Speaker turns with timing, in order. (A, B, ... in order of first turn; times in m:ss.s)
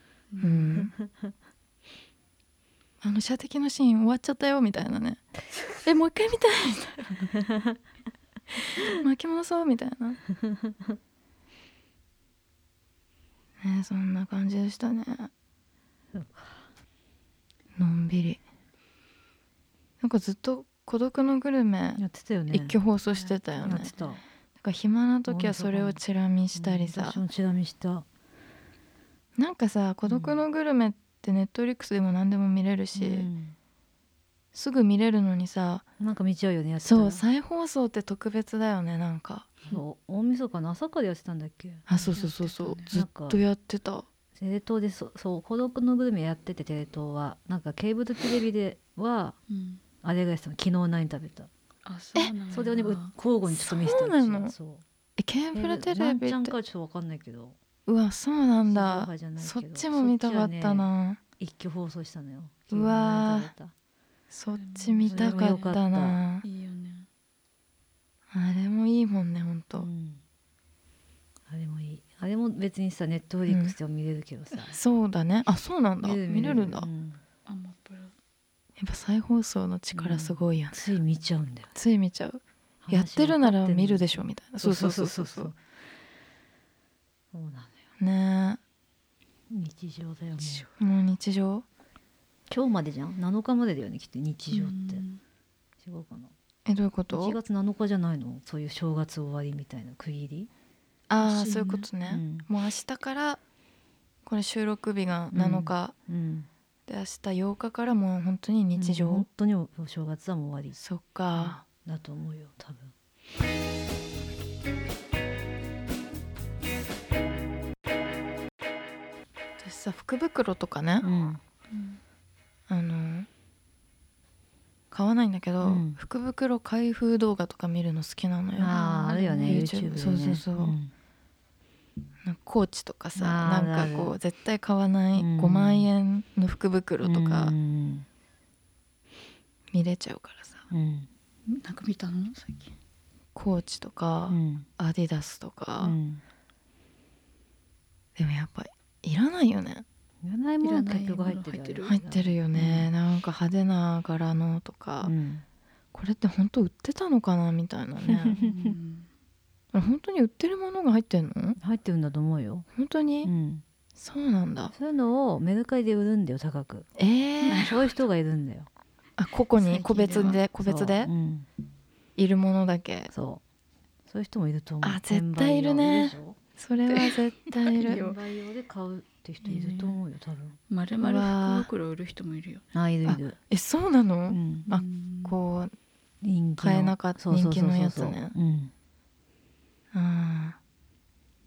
0:00.3-0:00.8 A
0:00.4-0:00.9 B
0:00.8-0:01.3 C
0:03.0-0:05.3 B
0:05.8-0:07.3 B
0:07.4-0:07.8 C
0:08.8-0:10.2 B
0:10.3-0:11.0 C
0:13.6-0:15.3 B
0:16.1-0:16.7 C
0:17.8-0:18.4 B
0:20.0-0:23.9 B
0:22.0-0:22.8 C
0:23.1-0:24.2 A
0:23.6-0:24.2 C
0:24.6-0:27.2 B
0:25.3-0:26.0 C
0:26.6-0:28.1 C
0:29.4-0:33.3 B
0:30.1-0:30.4 C
0:33.0-0:33.6 C
0:34.5-0:35.9 B
0:36.0-0:37.2 C
0:36.8-0:39.6 B
0:39.7-0:41.9 C
0:41.9-0:44.1 B
0:42.0-0:42.9 A
0:42.9-0:43.4 C
0:44.4-0:49.4 C
0:49.5-0:49.8 A
0:50.0-0:51.5 C
0:51.8-0:53.1 A
0:52.5-0:54.8 C
0:53.5-0:54.5 B
0:55.2-0:56.6 B
0:55.5-0:57.6 C
0:57.9-1:01.2 B
0:58.6-1:00.9 C
1:01.4-1:03.7 C
1:02.7-1:03.5 B
1:04.3-1:06.4 B
1:04.5-1:05.8 A
1:05.1-1:06.2 C
1:06.4-1:07.1 A
1:08.3-1:09.9 B
1:09.8-1:10.2 C
1:11.5-1:14.8 C
1:13.5-1:13.8 B
1:14.7-1:16.9 B
1:16.0-1:17.2 C
1:17.5-1:18.1 A
1:18.8-1:20.9 B
1:19.9-1:21.7 C
1:21.8-1:25.5 B
1:22.8-1:25.6 C
1:27.3-1:27.7 C
1:28.0-1:28.6 B
1:29.5-1:30.7 C
1:30.4-1:30.7 A
1:30.8-1:31.6 B
1:32.5-1:35.0 C
1:34.5-1:35.2 A
1:35.8-1:36.3 C
1:36.7-1:37.4 B
1:37.1-1:40.5 C
1:41.1-1:43.4 B
1:41.2-1:41.9 A
1:42.1-1:42.5 C
1:44.3-1:45.9 B
1:45.3-1:46.5 C
1:46.9-1:49.3 B
1:48.8-1:50.8 C
1:50.8-1:51.6 B
1:51.4-1:52.9 C
1:59.6-2:01.1 B
2:01.0-2:01.4 C
2:01.7-2:02.0 A
2:02.7-2:03.3 B
2:04.9-2:10.8 B
2:05.6-2:06.0 C
2:08.6-2:10.9 C
2:08.7-2:09.7 A
2:12.2-2:17.5 B
2:13.2-2:14.1 C
2:15.2-2:15.9 C
2:17.0-2:18.1 C
2:19.7-2:20.6 B
2:20.7-2:21.1 C
2:21.5-2:22.7 A
2:23.4-2:26.0 B
2:24.3-2:24.7 C
2:25.8-2:26.2 C
2:28.2-2:29.8 B
2:30.2-2:32.9 C
2:30.6-2:32.0 A
2:31.9-2:35.1 B
2:35.0-2:35.4 C
2:35.9-2:38.4 B
2:38.1-2:38.8 C
2:38.4-2:39.1 A
2:39.7-2:41.6 B
2:41.6-2:42.7 C
2:42.8-2:43.3 B
2:43.2-2:43.6 C
2:44.0-2:44.7 B
2:44.7-2:46.9 C
2:47.0-2:47.7 B
2:47.4-2:47.9 A
2:47.5-2:48.7 C
2:49.2-2:51.1 B
2:49.6-2:50.4 A
2:50.6-2:51.5 C
2:52.2-2:53.1 B
2:53.1-2:53.4 C
2:54.1-2:56.4 C
2:54.8-2:58.0 B
2:56.9-2:58.2 A
2:57.8-3:00.6 C
2:59.4-3:00.0 A
3:00.7-3:02.7 A
3:01.0-3:01.7 B
3:02.7-3:03.4 C
3:03.1-3:05.7 B
3:04.3-3:04.7 C
3:04.7-3:05.4 A
3:06.2-3:08.7 C
3:06.6-3:08.3 B
3:09.9-3:10.6 B